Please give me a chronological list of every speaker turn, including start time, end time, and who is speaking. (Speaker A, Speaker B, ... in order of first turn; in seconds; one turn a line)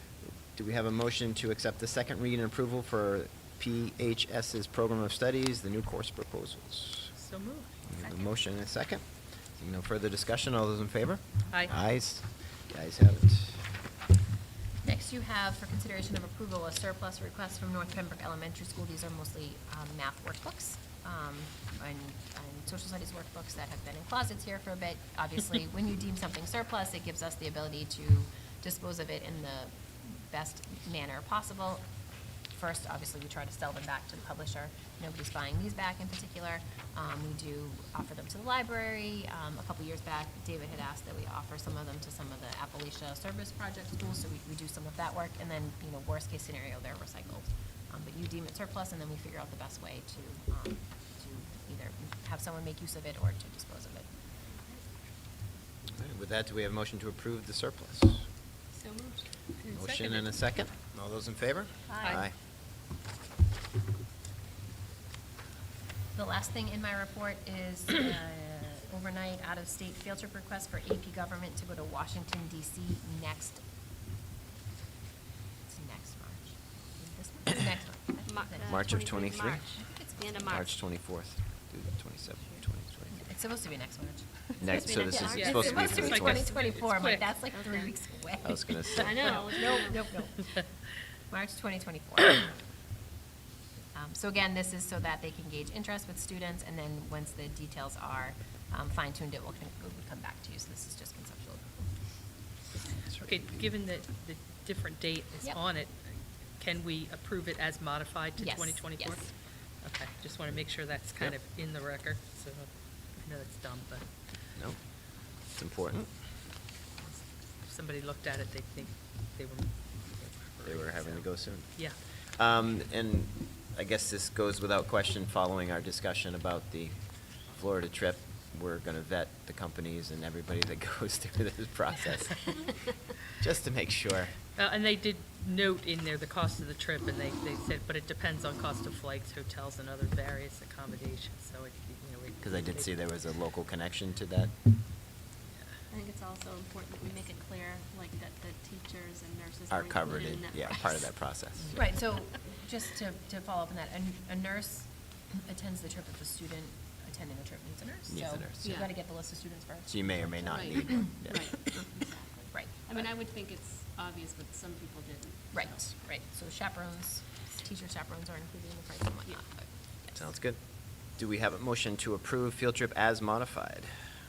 Speaker A: 0.2-7.1
Speaker B: 7.2-7.8
Speaker A: 7.9-13.7
Speaker C: 8.0-8.3
Speaker D: 14.8-31.9
Speaker D: 32.5-54.1
Speaker A: 56.0-58.3
Speaker C: 58.7-59.3
Speaker B: 59.6-60.3
Speaker A: 59.7-62.4
Speaker D: 61.9-62.2
Speaker B: 62.0-62.3
Speaker D: 66.2-73.6
Speaker D: 75.7-78.7
Speaker C: 78.3-80.7
Speaker A: 78.7-79.7
Speaker D: 79.8-80.5
Speaker A: 80.5-83.2
Speaker D: 83.1-90.7
Speaker A: 84.6-86.7
Speaker C: 84.7-86.2
Speaker B: 85.3-87.3
Speaker C: 87.5-87.9
Speaker A: 88.4-89.5
Speaker C: 88.9-90.0
Speaker D: 91.3-92.6
Speaker D: 93.9-101.9
Speaker A: 103.1-103.5
Speaker B: 103.2-114.1
Speaker D: 108.4-109.2
Speaker A: 114.6-116.2
Speaker B: 117.1-122.0
Speaker A: 120.6-134.4
Speaker B: 134.6-143.0
Speaker A: 142.4-144.6
Speaker C: 145.9-151.1
Speaker A: 149.7-151.8
Speaker D: 151.7-161.1
Speaker A: 158.1-158.8
Speaker C: 158.6-158.9
Speaker A: 159.9-161.7
Speaker C: 160.5-165.9
Speaker D: 162.5-163.0
Speaker D: 165.5-170.2
Speaker A: 170.1-173.9